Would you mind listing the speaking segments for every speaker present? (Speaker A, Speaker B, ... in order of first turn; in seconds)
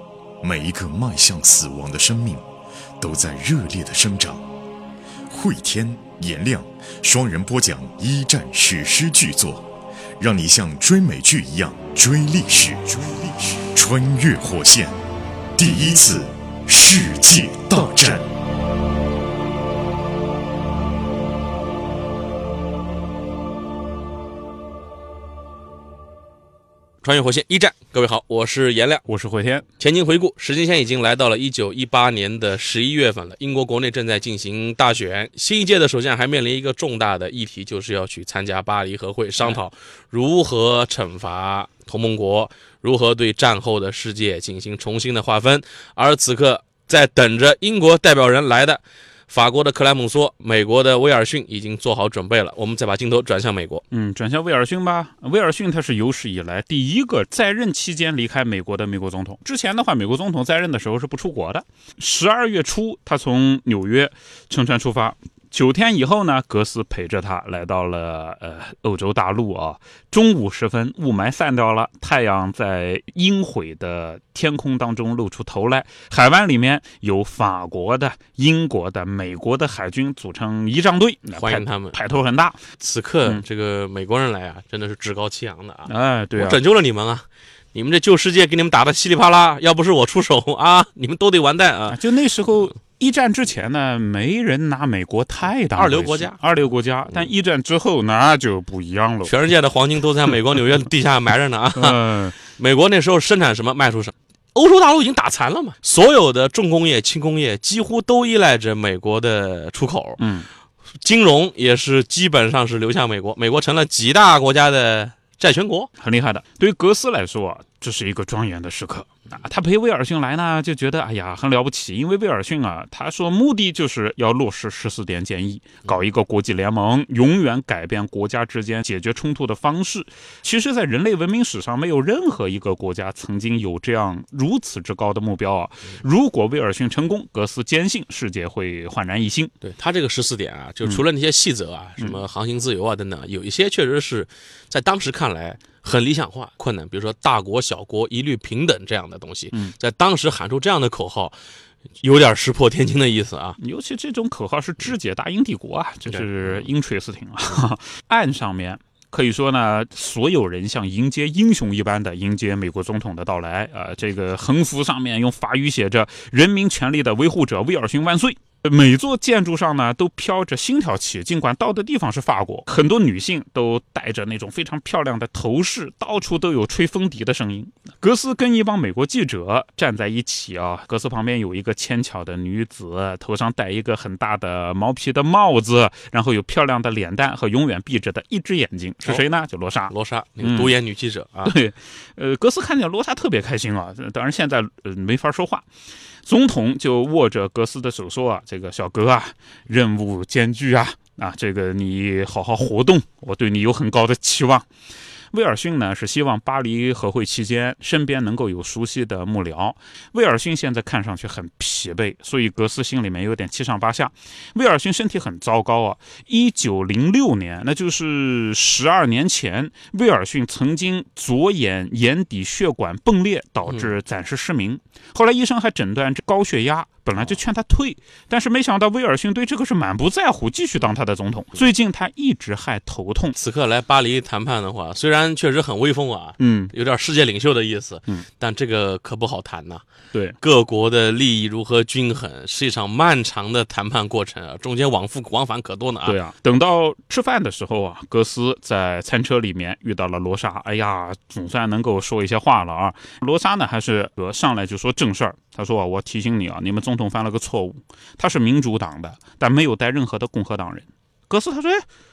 Speaker A: 0.4-2.4, 3.0-4.4, 5.3-9.7, 10.2-15.0, 15.6-18.3
Speaker B: 27.0-29.1, 29.8-53.8, 81.4-82.0, 82.8-92.0, 95.8-96.4, 99.2-110.2, 111.0-115.9, 139.6-151.4, 152.0-153.6, 156.1-156.7, 189.9-191.6, 223.7-223.9, 233.4-239.8, 240.4-246.2
Speaker C: 29.1-29.7, 53.9-82.7, 85.9-86.6, 91.9-99.3, 101.7-102.4, 110.2-110.5, 116.0-139.5, 153.6-190.8, 191.4-195.7, 196.2-204.7, 205.3-233.4, 236.4-236.7, 246.0-261.9